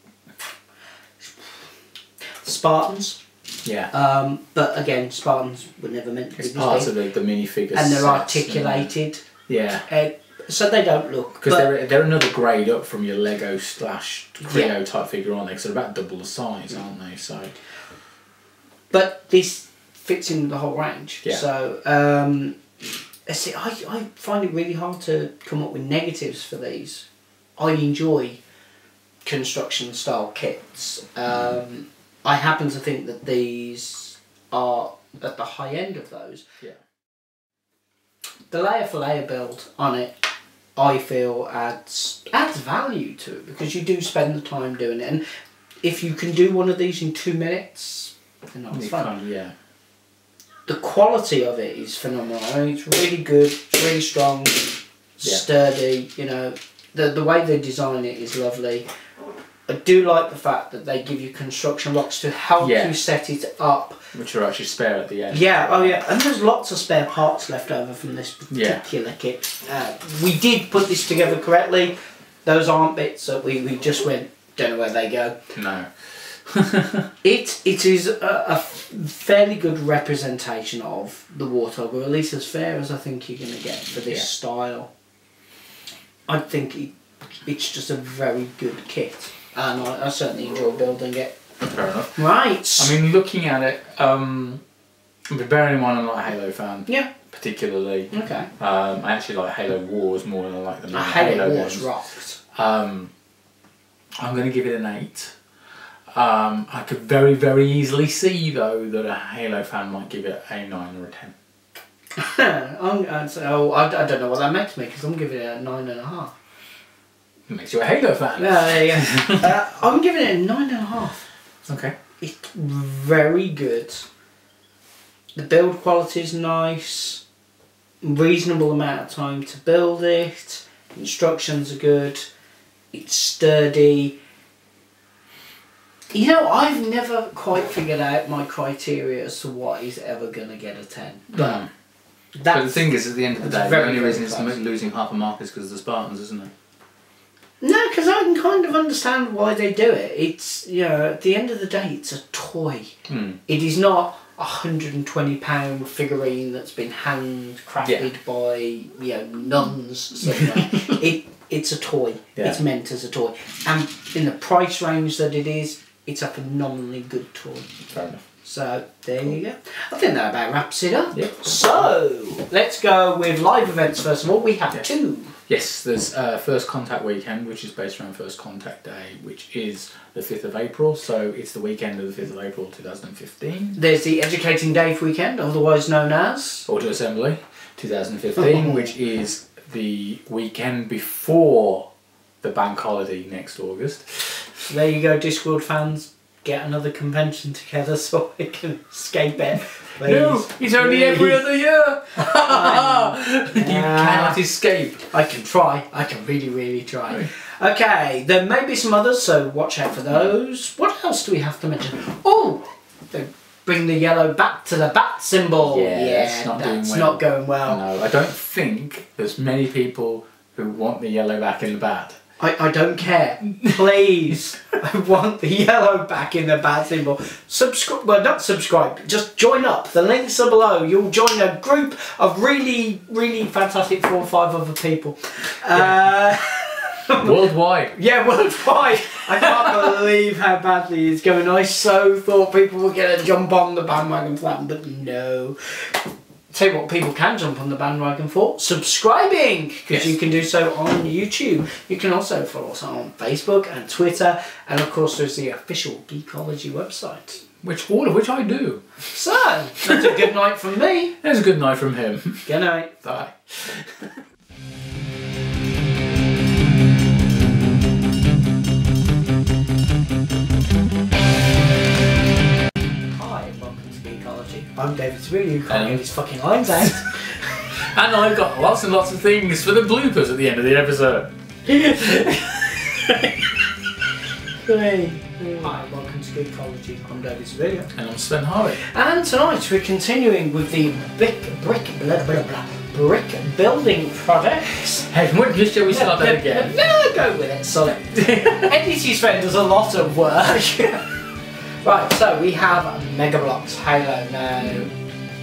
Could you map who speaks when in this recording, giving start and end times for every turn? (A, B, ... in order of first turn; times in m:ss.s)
0:02.4-0:03.2 A
0:03.6-0:03.9 B
0:03.9-0:06.9 A
0:06.4-0:08.9 B
0:07.7-0:09.2 A
0:09.5-0:09.9 B
0:09.9-0:11.7 A
0:11.4-0:17.6 B
0:14.4-0:14.7 A
0:18.9-0:22.6 A
0:23.3-0:27.1 A
0:27.6-0:28.4 A
0:29.2-0:36.4 A
0:38.5-0:40.2 A
0:40.8-0:45.2 A
0:45.8-0:49.1 A
0:48.7-0:49.5 B
0:50.6-0:58.9 A
0:59.7-1:04.0 A
1:02.6-1:03.0 B
1:04.1-1:06.0 B
1:05.3-1:15.4 A
1:08.5-1:08.8 B
1:15.5-1:17.1 B
1:17.2-1:24.9 A
1:26.3-1:26.9 A
1:27.4-1:31.3 A
1:31.6-1:32.2 B
1:32.1-1:32.9 A
1:32.8-1:34.6 B
1:35.3-1:41.9 B
1:38.1-1:38.5 A
1:40.9-1:42.4 A
1:42.5-1:43.1 B
1:44.2-1:45.3 B
1:46.1-1:51.3 B
1:52.2-1:56.3 A
1:57.5-1:59.5 B
1:58.4-2:01.2 A
2:01.6-2:01.9 B
2:02.2-2:04.1 A
2:05.3-2:07.2 A
2:08.0-2:12.3 A
2:12.9-2:14.2 A
2:16.1-2:21.6 A
2:21.3-2:21.7 B
2:22.3-2:24.6 A
2:22.5-2:26.5 B
2:27.6-2:32.9 A
2:33.1-2:33.4 B
2:33.5-2:47.7 A
2:37.8-2:38.1 B
2:42.4-2:42.6 B
2:47.9-2:48.2 B
2:48.4-2:55.3 A
2:51.1-2:51.9 B
2:55.5-3:03.8 B
3:03.8-3:06.7 A
3:06.7-3:11.9 B
3:08.4-3:08.9 A
3:12.4-3:14.6 B
3:14.7-3:21.4 A
3:20.0-3:25.1 B
3:22.3-3:24.4 A
3:25.1-3:37.8 A
3:35.6-3:42.2 B
3:42.4-3:57.4 A
3:55.7-3:56.0 B
3:57.2-3:58.0 B
3:57.9-4:06.0 A
4:06.5-4:17.4 A
4:17.6-4:19.0 B
4:19.1-4:21.2 A
4:19.8-4:20.3 B
4:21.2-4:22.5 B
4:22.4-4:22.9 A
4:23.0-4:24.2 B
4:33.1-4:37.6 A
4:35.7-4:36.0 B
4:37.7-4:43.6 B
4:44.7-4:45.5 B
4:45.4-4:47.9 A
4:47.9-4:48.8 B
4:48.8-4:55.1 A
4:55.1-4:56.8 B
4:55.9-5:01.2 A
4:58.0-4:58.7 B
5:01.8-5:04.9 A
5:04.6-5:04.9 B